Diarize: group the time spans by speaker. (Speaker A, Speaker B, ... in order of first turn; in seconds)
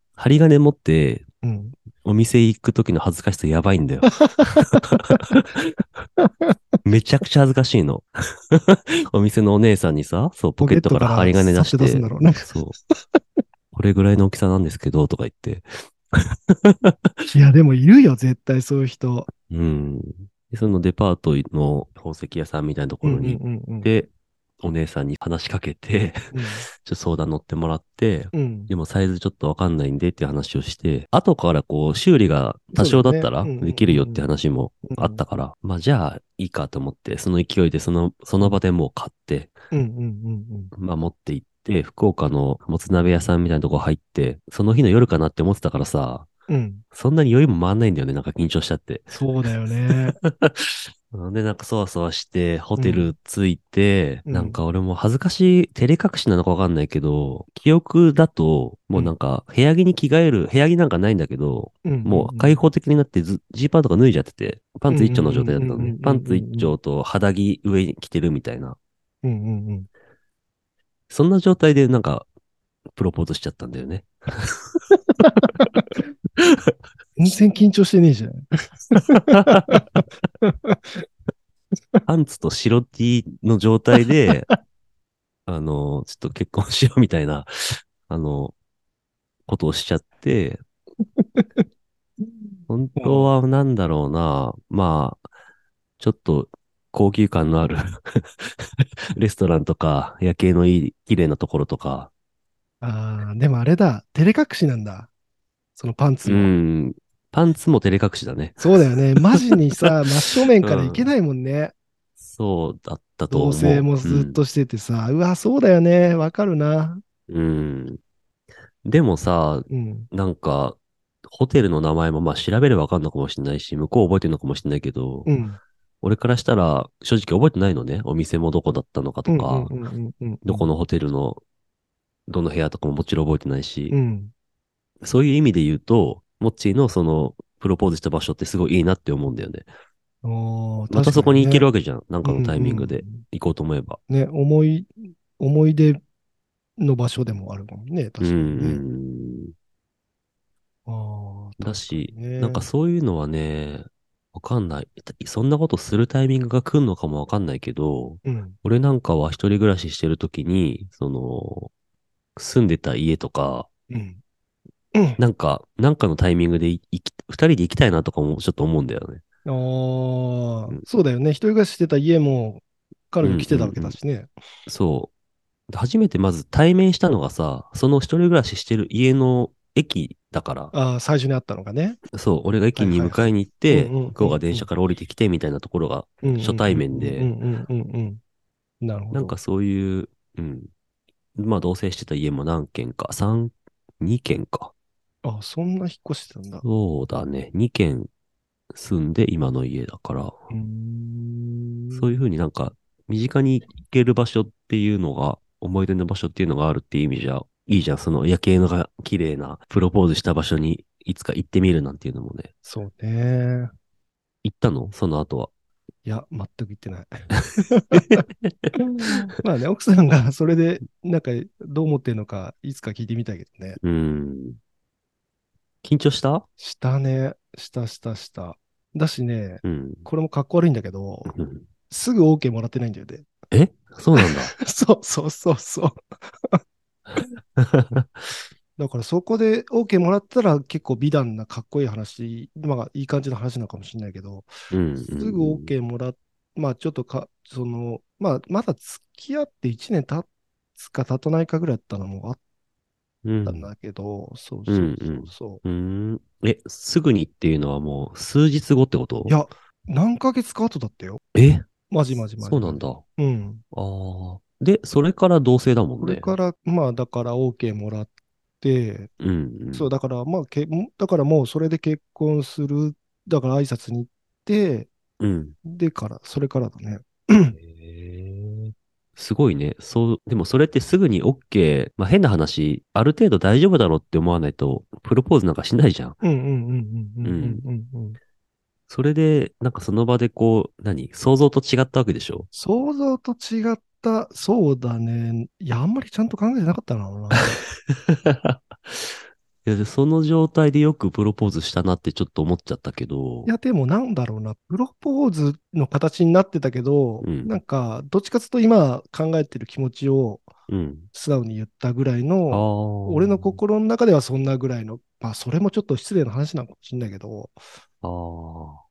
Speaker A: 0.1-1.3, 2.0-5.7, 6.8-12.8, 13.7-17.1, 19.5-39.5, 40.7-46.3, 46.9-49.2, 49.9-68.8, 71.1-72.3, 72.9-75.2, 79.3-80.0, 82.1-84.5, 85.5-88.5, 89.5-90.6, 92.7-95.2, 96.0-102.1, 106.2-109.5, 110.6-111.1, 112.2-114.4, 117.3-118.0, 118.8-125.3, 126.0-129.7, 130.4-131.4, 132.3-133.9, 135.0-139.7, 140.9-144.0, 148.2-149.5, 151.6-161.7, 162.4-163.7, 165.2-169.2, 173.2-174.0, 174.7-175.1, 175.7-180.7, 182.1-187.3, 189.1-190.7, 191.4-194.7, 196.6-198.1, 198.7-200.4, 201.9-212.5, 214.4-215.5, 217.9-219.2, 223.8-224.6, 225.8-226.4, 229.6-230.1, 231.3-231.7, 233.5-234.5, 237.1-238.3, 244.7-245.7, 253.2-253.7, 254.7-259.4, 261.4-261.7, 262.4-263.0, 263.7-266.4, 269.2-269.9, 275.2-275.6, 277.6-286.2, 287.2-287.6, 288.9-292.5, 297.4-303.5, 307.2-307.6, 310.7-311.1, 312.5-313.6, 318.0-318.8
Speaker B: 1.4-1.8, 4.2-5.4, 6.2-6.6, 10.6-12.5, 17.3-19.3, 23.0-23.9, 26.3-26.7, 28.3-28.7, 32.7-34.3, 34.9-35.2, 39.7-40.7, 46.5-46.8, 49.1-50.2, 52.8-53.1, 54.3-54.6, 61.9-62.6, 64.9-66.7, 69.2-69.9, 75.3-75.8, 77.2-81.0, 91.2-91.7, 93.0-93.3, 102.8-105.1, 105.8-106.5, 108.6-111.8, 113.3-117.0, 119.7-120.1, 125.3-125.6, 129.3-130.7, 133.9-134.3, 140.2-141.7, 142.2-143.2, 144.1-146.0, 146.8-148.8, 150.9-152.7, 158.2-158.6, 163.9-164.2, 164.9-165.2, 169.4-174.3, 180.7-182.0, 182.8-184.7, 186.2-188.2, 188.8-189.4, 195.2-196.6, 200.5-202.2, 212.7-213.7, 216.1-218.2, 218.8-223.8, 226.6-231.3, 231.9-233.3, 234.2-236.6, 238.8-244.5, 245.2-252.4, 253.4-255.6, 259.2-261.2, 261.9-263.6, 266.0-269.1, 269.7-274.9, 275.6-277.6, 286.2-288.2, 292.5-297.6, 303.5-310.5, 311.1-317.6